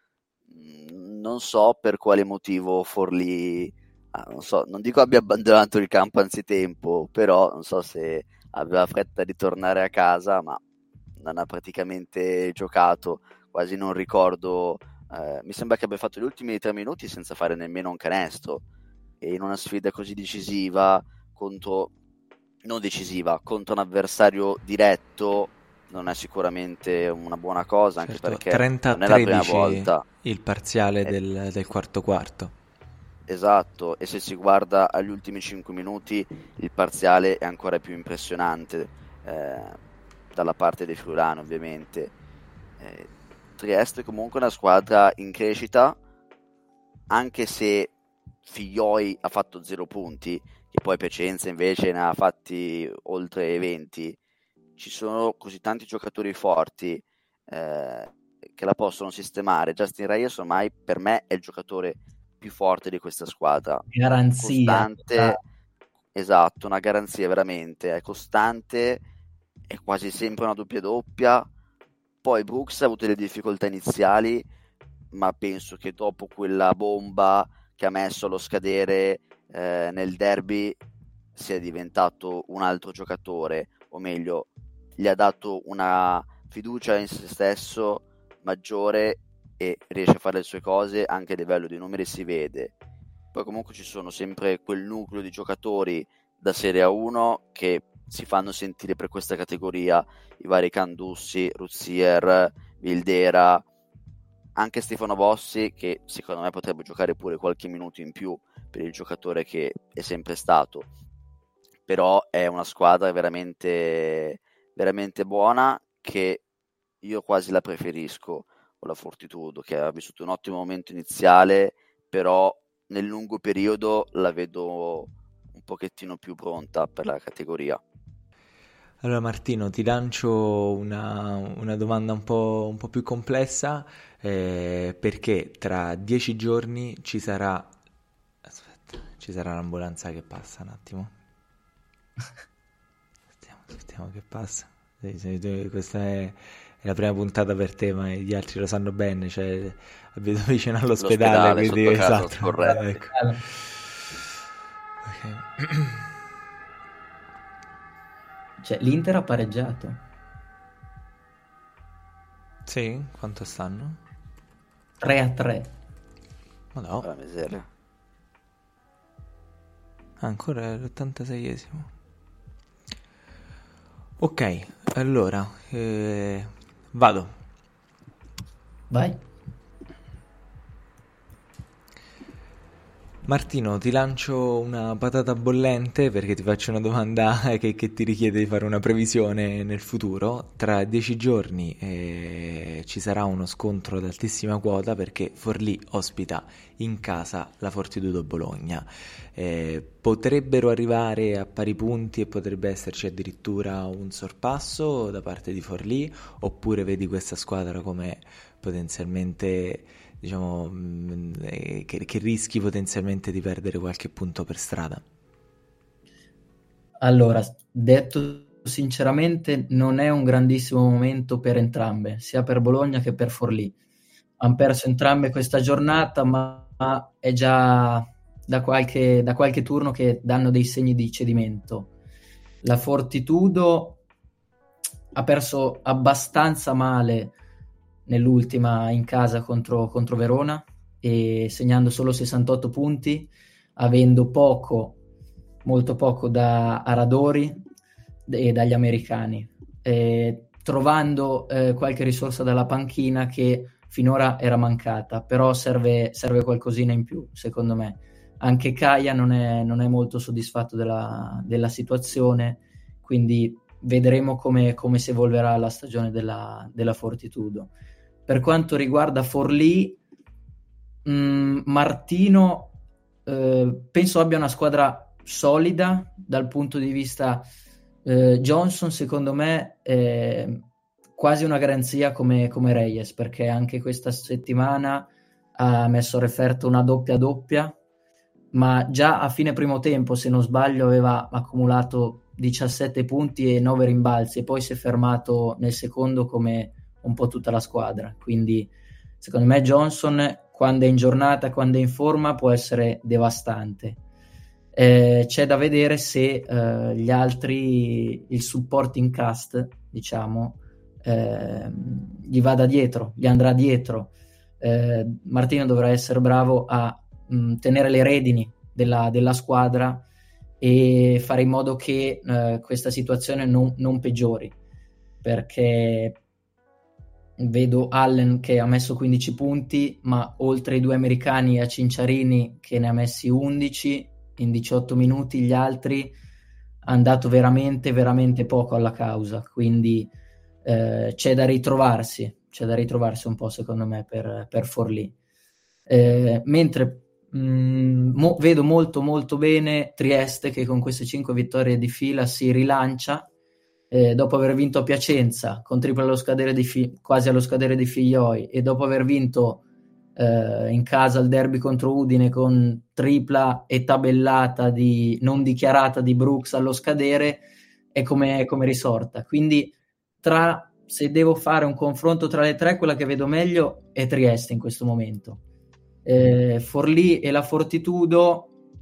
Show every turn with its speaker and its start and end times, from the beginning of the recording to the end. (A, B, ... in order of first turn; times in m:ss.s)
0:00.5-0:10.6 A
0:11.2-0:18.6 A
0:19.2-0:21.9 A
0:22.6-0:30.0 A
0:28.0-0:32.5 B
0:33.3-0:39.8 A
0:40.3-0:42.1 A
0:42.8-0:46.0 A
0:47.1-0:47.9 A
0:48.5-0:54.2 A
0:54.8-1:03.9 A
1:03.9-1:05.4 C
1:04.4-1:05.4 A
1:06.1-1:09.0 A
1:09.7-1:11.5 A
1:12.2-1:14.5 A
1:15.1-1:20.8 A
1:21.4-1:32.7 A
1:33.3-1:43.6 A
1:44.6-1:50.9 A
1:51.9-1:56.4 A
1:57.0-2:07.8 A
2:09.0-2:17.8 B
2:18.5-2:21.1 B
2:23.4-2:33.1 B
2:31.0-2:33.0 A
2:32.8-2:33.4 C
2:35.0-2:36.1 B
2:38.6-2:40.0 C
2:42.7-2:44.0 B
2:45.0-2:45.8 C
2:46.7-2:47.1 B
2:47.0-2:47.7 A
2:50.2-2:51.9 B
2:54.2-2:57.3 B
2:58.9-2:59.2 C
3:03.2-3:35.0 B
3:37.0-3:43.7 C
3:44.4-3:51.9 C
3:52.6-3:54.0 C
3:55.2-3:57.3 C
3:58.1-4:05.0 C
4:05.6-4:07.6 C
4:08.3-4:27.7 C
4:28.3-4:30.0 C
4:31.0-4:32.8 C
4:33.3-4:37.4 C
4:38.0-4:40.6 C
4:41.2-4:47.8 C
4:48.5-4:58.7 C
4:59.2-5:04.0 C
5:04.8-5:20.0 C
5:20.6-5:24.6 C
5:25.2-5:26.2 C
5:27.4-5:36.1 C
5:36.8-5:40.1 C
5:40.6-5:45.1 C
5:45.9-5:53.3 C
5:53.9-5:59.6 C
6:00.2-6:15.4 C
6:16.0-6:18.5 C